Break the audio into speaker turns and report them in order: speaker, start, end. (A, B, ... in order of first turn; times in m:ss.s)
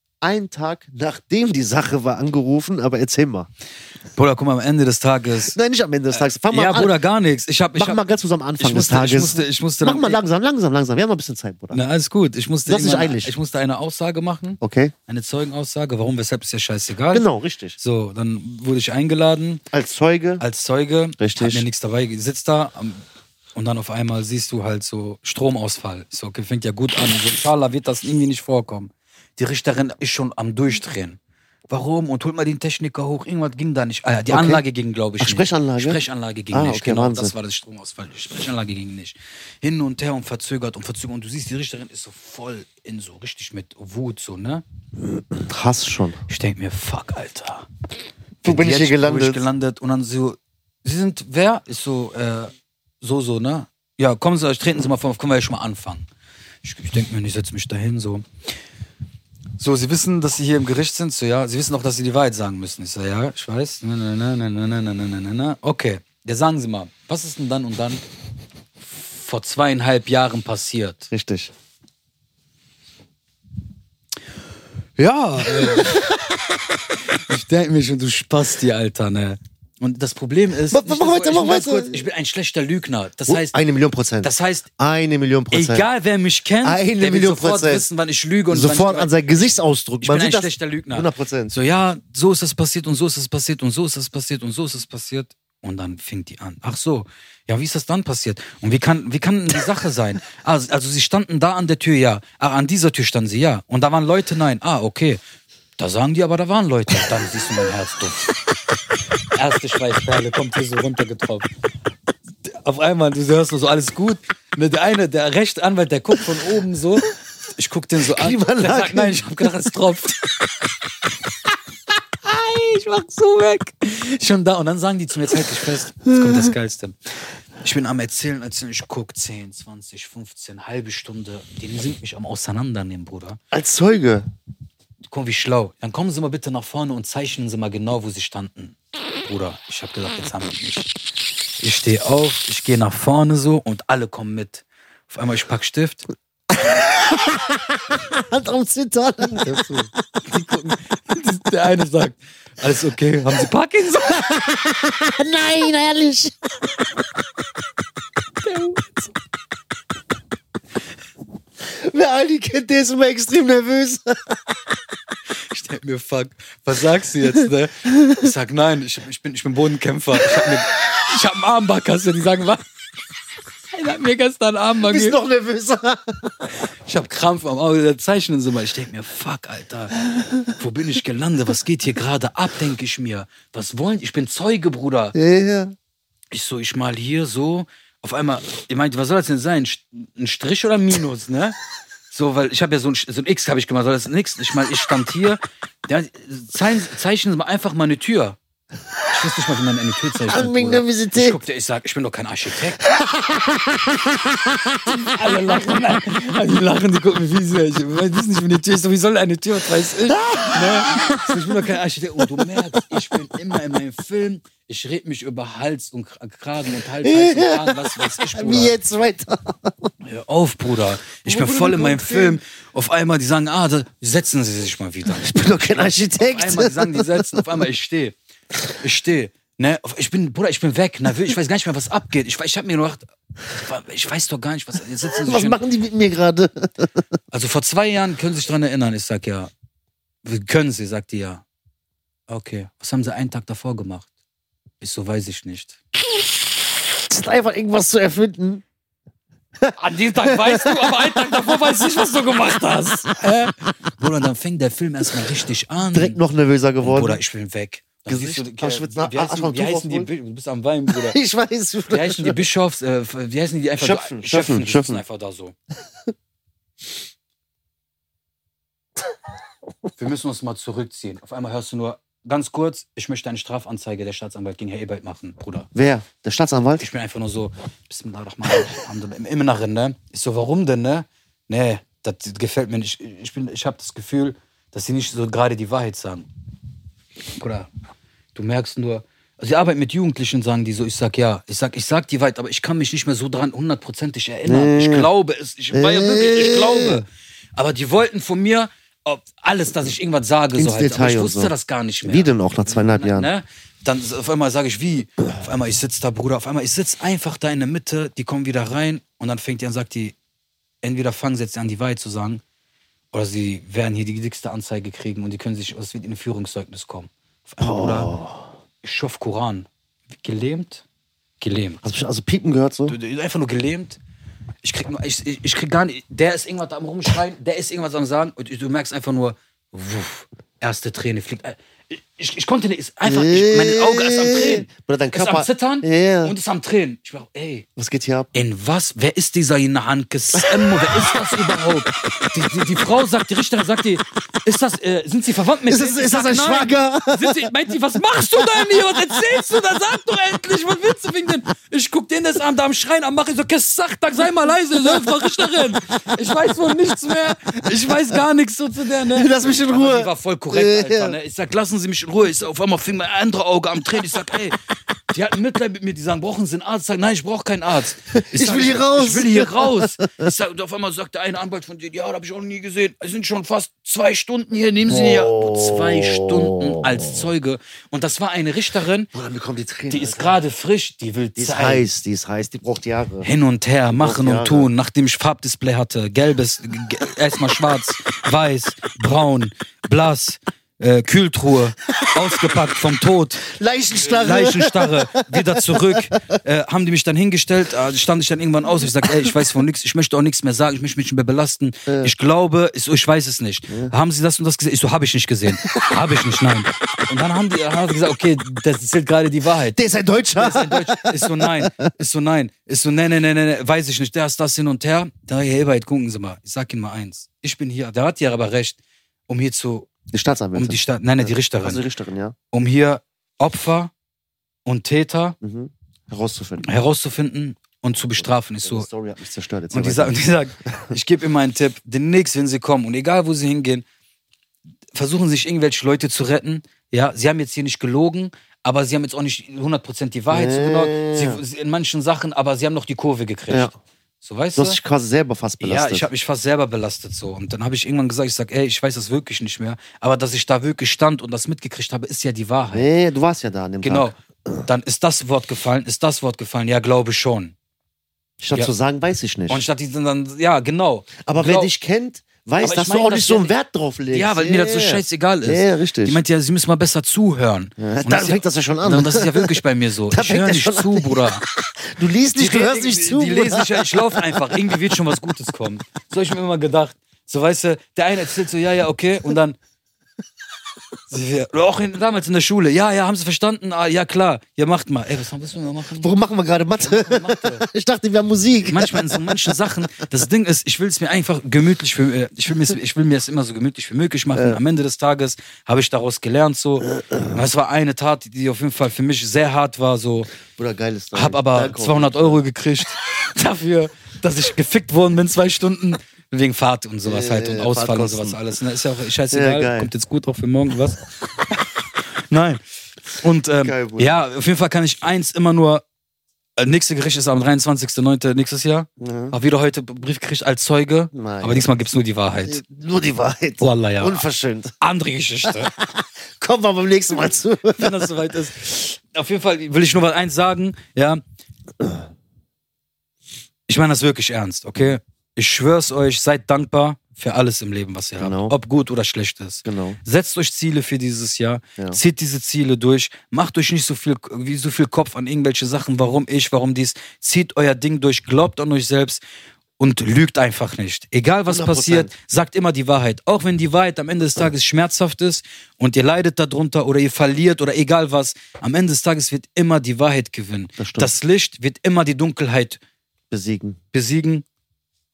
0:00.2-0:03.5 A
0:04.2-0:05.6 B
0:05.5-0:07.0 A
0:06.1-0:08.0 B
0:07.7-0:11.8 A
0:08.6-0:10.2 B
0:11.7-0:17.2 B
0:12.6-0:13.3 A
0:14.6-0:14.9 A
0:17.1-0:17.8 A
0:17.8-0:19.6 B
0:19.7-0:20.4 A
0:20.4-0:23.0 B
0:21.2-0:21.6 A
0:23.6-0:31.2 B
0:31.7-0:44.6 B
0:34.3-0:34.6 A
0:35.2-0:36.0 A
0:36.5-0:37.3 A
0:45.0-0:46.2 A
0:46.3-0:47.7 B
0:48.4-0:56.0 B
0:48.4-0:49.4 A
0:56.6-0:58.3 B
0:59.6-1:08.0 B
1:08.8-1:11.1 B
1:11.1-1:11.5 A
1:15.0-1:16.1 B
1:15.6-1:16.2 A
1:17.1-1:23.6 B
1:20.7-1:22.0 A
1:23.3-1:25.9 A
1:24.2-1:24.7 B
1:25.5-1:45.2 B
1:26.6-1:27.8 A
1:28.5-1:31.6 A
1:45.8-1:48.3 B
1:49.3-1:51.5 B
1:52.4-2:00.3 B
1:58.1-1:59.6 A
2:02.2-2:07.0 B
2:06.2-2:06.5 A
2:07.6-2:13.4 B
2:13.5-2:14.3 A
2:15.0-2:20.9 B
2:21.6-2:26.0 B
2:26.5-2:29.9 A
2:30.2-2:34.3 B
2:34.1-2:36.3 A
2:38.4-2:39.1 B
2:41.6-2:44.5 A
2:45.5-2:52.6 B
2:53.7-2:55.2 B
2:54.9-2:56.4 A
2:56.9-3:05.2 B
3:05.1-3:05.7 A
3:06.3-3:11.6 B
3:12.1-3:18.4 B
3:19.1-3:22.8 B
3:20.3-3:21.4 A
3:23.0-3:25.0 A
3:24.8-3:38.7 B
3:30.1-3:33.1 A
3:37.0-3:39.9 A
3:40.0-3:45.3 B
3:41.3-3:42.4 A
3:45.1-3:47.4 A
3:46.2-3:48.1 B
3:48.8-3:55.6 B
3:55.2-3:57.0 A
3:57.3-3:59.5 B
4:00.2-4:01.4 B
4:02.3-4:04.1 B
4:04.8-4:05.8 B
4:07.0-4:08.6 A
4:09.6-4:11.3 A
4:09.7-4:16.2 B
4:15.9-4:17.2 A
4:16.8-4:21.2 B
4:18.1-4:20.1 A
4:20.9-4:22.4 A
4:21.9-4:25.6 B
4:23.8-4:25.0 A
4:30.0-4:35.7 B
4:35.7-4:36.8 A
4:36.8-4:46.3 B
4:47.3-4:47.7 B
4:48.3-5:10.1 B
4:54.4-4:55.1 A
4:55.7-4:57.0 A
5:00.6-5:03.3 A
5:10.8-5:12.4 B
5:13.1-5:18.1 B
5:17.6-5:18.5 A
5:18.8-5:20.8 B
5:21.4-5:21.8 B
5:21.8-5:23.0 A
5:22.9-5:24.0 B
5:24.6-5:37.7 B
5:33.0-5:36.3 A
5:37.8-5:38.3 A
5:38.3-6:04.6 B
5:40.4-5:41.1 A
5:45.7-5:47.5 A
5:48.3-5:48.8 A
5:54.8-5:55.3 A
5:59.1-6:01.2 A
6:05.1-6:19.1 B
6:08.1-6:10.3 A
6:14.9-6:17.2 A
6:19.1-6:20.4 A
6:19.9-6:21.9 B
6:21.4-6:23.3 A
6:23.2-6:49.8 B
6:23.9-6:24.7 A
6:33.5-6:36.1 A
6:41.9-6:42.1 A
6:49.7-6:51.9 A
6:50.3-6:58.8 B
6:59.3-6:59.9 B
7:00.1-7:02.4 A
7:00.6-7:01.8 B
7:02.5-7:03.9 B
7:04.6-7:05.4 B
7:05.4-7:06.7 A
7:06.6-7:08.9 B
7:08.2-7:10.9 A
7:09.7-7:13.8 B
7:14.9-7:24.8 B
7:20.3-7:21.4 A
7:24.6-7:26.1 A
7:25.6-7:32.9 B
7:32.7-7:34.6 A
7:33.8-7:37.5 B
7:38.4-7:39.6 A
7:39.5-7:41.7 B
7:41.2-7:46.2 A
7:42.6-7:43.5 B
7:44.1-7:51.4 B
7:47.8-7:54.8 A
7:52.4-7:59.6 B
8:01.1-8:06.1 B
8:06.0-8:09.6 A
8:06.8-8:07.6 B
8:08.6-8:20.3 B
8:14.3-8:14.6 A
8:17.0-8:17.4 A
8:20.6-8:22.4 A
8:21.1-8:31.1 B
8:27.0-8:28.4 A
8:29.3-8:29.9 A
8:32.2-8:35.8 B
8:33.6-8:34.1 A
8:36.6-8:42.6 B
8:39.0-8:39.4 A
8:41.1-8:41.6 A
8:42.4-8:44.7 A
8:43.6-8:44.2 B
8:44.8-8:45.7 B
8:45.4-8:48.0 A
8:47.7-8:51.2 B
8:53.7-9:09.2 B
8:58.2-8:58.6 A
8:59.6-9:00.0 A
9:09.8-9:22.8 B
9:11.5-9:12.1 A
9:20.8-9:21.1 A
9:23.3-9:23.8 A
9:23.9-9:24.4 B